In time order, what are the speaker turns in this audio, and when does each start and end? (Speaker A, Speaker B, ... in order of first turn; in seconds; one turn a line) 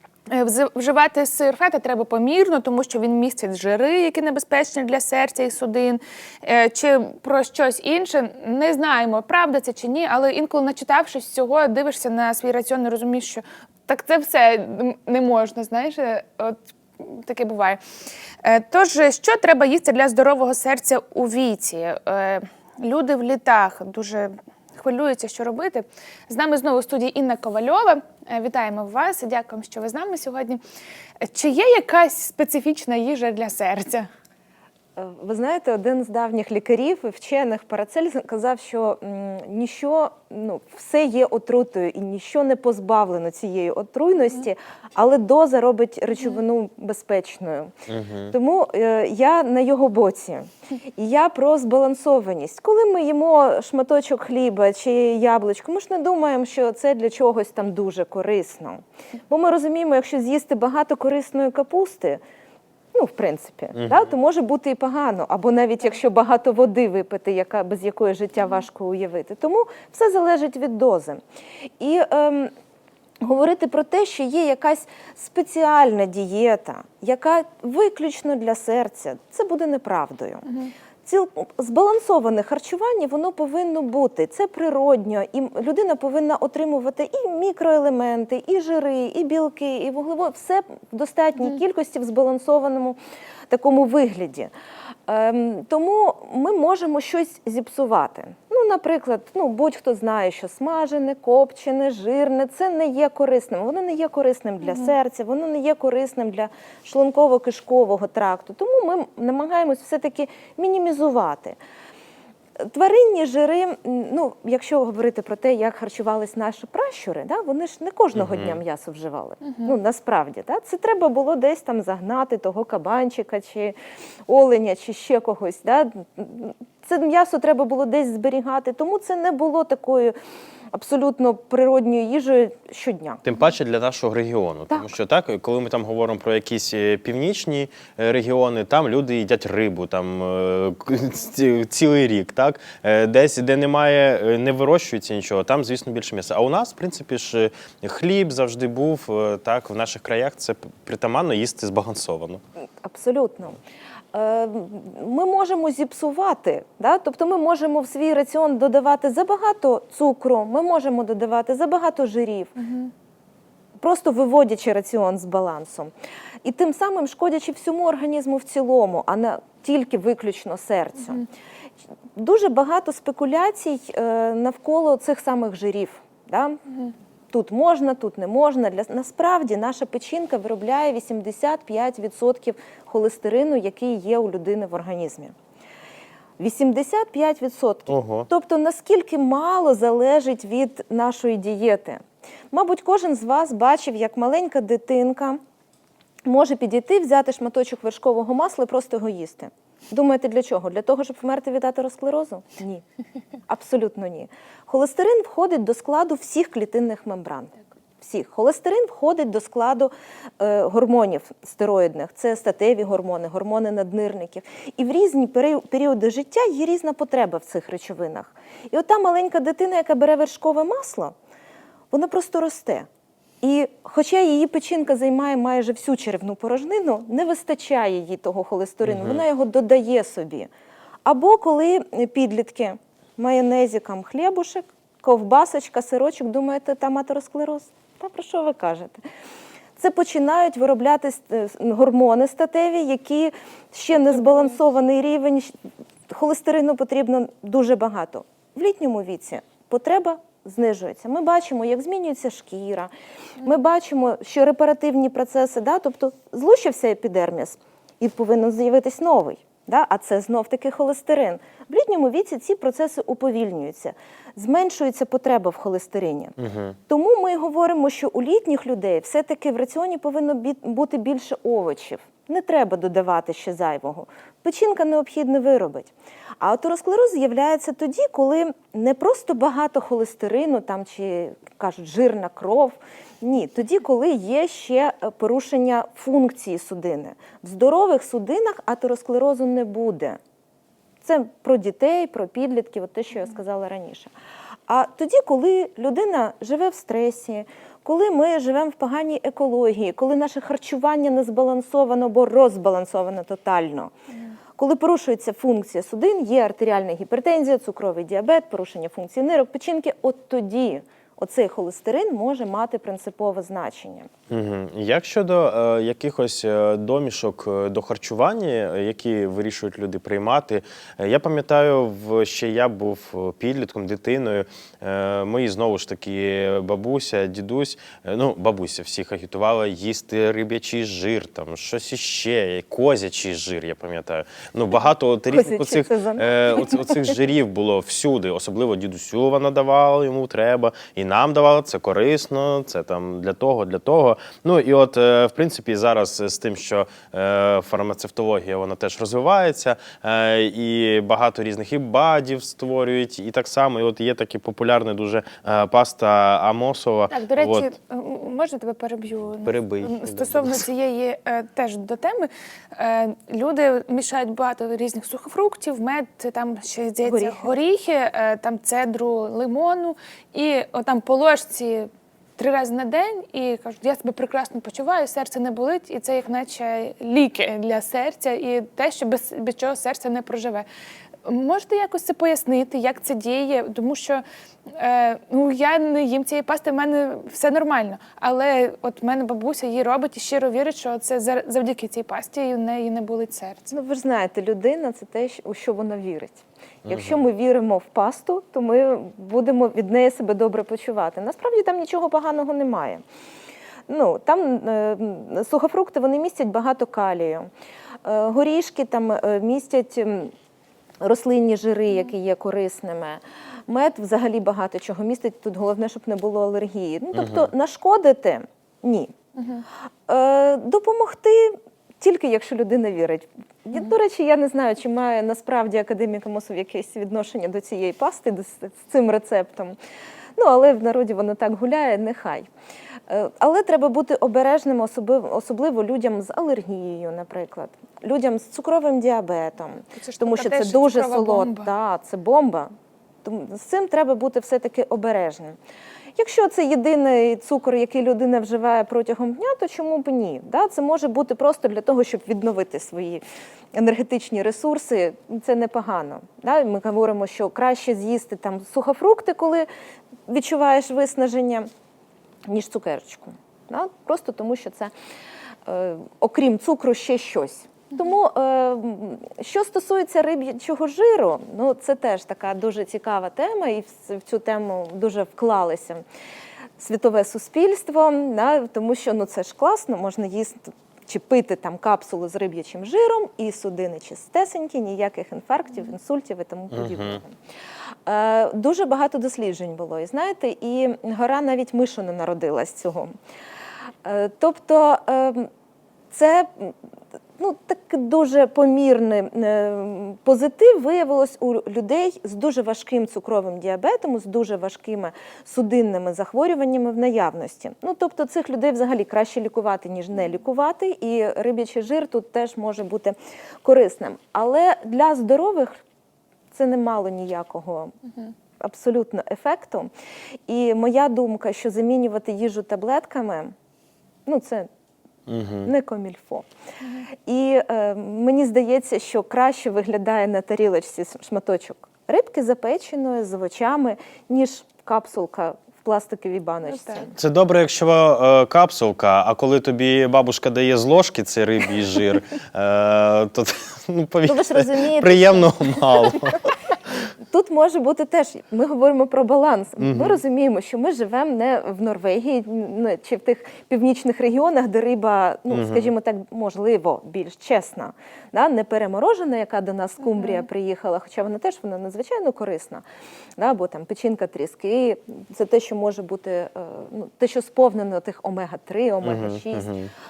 Speaker A: 0.3-17.8
Speaker A: 18.4-30.6
Speaker A: 31.2-34.1
Speaker B: 35.0-47.7
Speaker C: 47.9-48.3
Speaker B: 48.3-62.2
Speaker B: 62.9-71.2
Speaker C: 63.7-64.1
Speaker B: 71.8-72.5
Speaker B: 73.2-80.5
Speaker B: 81.0-93.0
Speaker B: 93.5-94.5
Speaker B: 95.1-111.6
Speaker A: 104.6-104.9
Speaker B: 112.6-123.8
Speaker C: 118.1-118.6
Speaker A: 119.4-119.7
Speaker B: 124.3-130.1
Speaker B: 130.7-133.2
Speaker C: 133.2-152.4
Speaker B: 152.8-153.6
Speaker B: 154.1-162.5
Speaker A: 162.6-162.9
Speaker B: 163.8-165.9
Speaker B: 166.4-171.2
Speaker B: 172.2-176.6
Speaker B: 177.3-185.3
Speaker B: 186.4-195.4
Speaker C: 187.9-188.3
Speaker B: 196.2-202.8
Speaker B: 203.5-221.1
Speaker B: 221.9-222.9
Speaker B: 223.4-230.5
Speaker C: 228.8-229.2
Speaker B: 231.0-239.0
Speaker B: 239.8-245.5
Speaker A: 243.9-244.6
Speaker B: 246.1-252.9
Speaker B: 253.4-266.3
Speaker C: 266.4-266.8
Speaker B: 266.9-290.2
Speaker B: 291.0-294.1
Speaker B: 294.7-303.9
Speaker B: 304.6-314.1
Speaker C: 314.3-357.7
Speaker B: 335.3-337.1
Speaker A: 357.1-380.6
Speaker C: 359.4-360.7
Speaker B: 367.0-367.5
Speaker A: 381.2-393.7
Speaker B: 393.7-403.0
Speaker C: 396.8-397.2
Speaker B: 403.9-407.5
Speaker B: 408.0-410.3
Speaker B: 411.0-419.1
Speaker C: 417.1-417.5
Speaker A: 419.4-419.6
Speaker B: 420.1-429.8
Speaker B: 430.4-432.5
Speaker B: 433.1-442.7
Speaker A: 439.9-441.7
Speaker B: 443.2-445.6
Speaker B: 446.1-453.2
Speaker B: 453.7-459.7
Speaker B: 460.3-461.7
Speaker B: 462.4-464.9
Speaker B: 465.6-476.0
Speaker B: 476.8-487.3
Speaker C: 486.7-487.2
Speaker B: 488.1-493.1
Speaker B: 494.0-495.5
Speaker B: 496.1-496.7
Speaker B: 497.4-515.8
Speaker B: 516.5-517.9
Speaker B: 518.6-519.9
Speaker B: 520.5-523.5
Speaker B: 524.2-524.7
Speaker C: 525.3-525.7
Speaker B: 525.6-526.5
Speaker B: 527.2-537.1
Speaker A: 536.6-537.0
Speaker C: 537.1-546.5
Speaker B: 544.2-546.2
Speaker B: 547.3-562.8
Speaker C: 549.8-550.2
Speaker C: 555.5-555.9
Speaker A: 560.0-560.5
Speaker B: 563.4-569.7
Speaker C: 569.0-569.9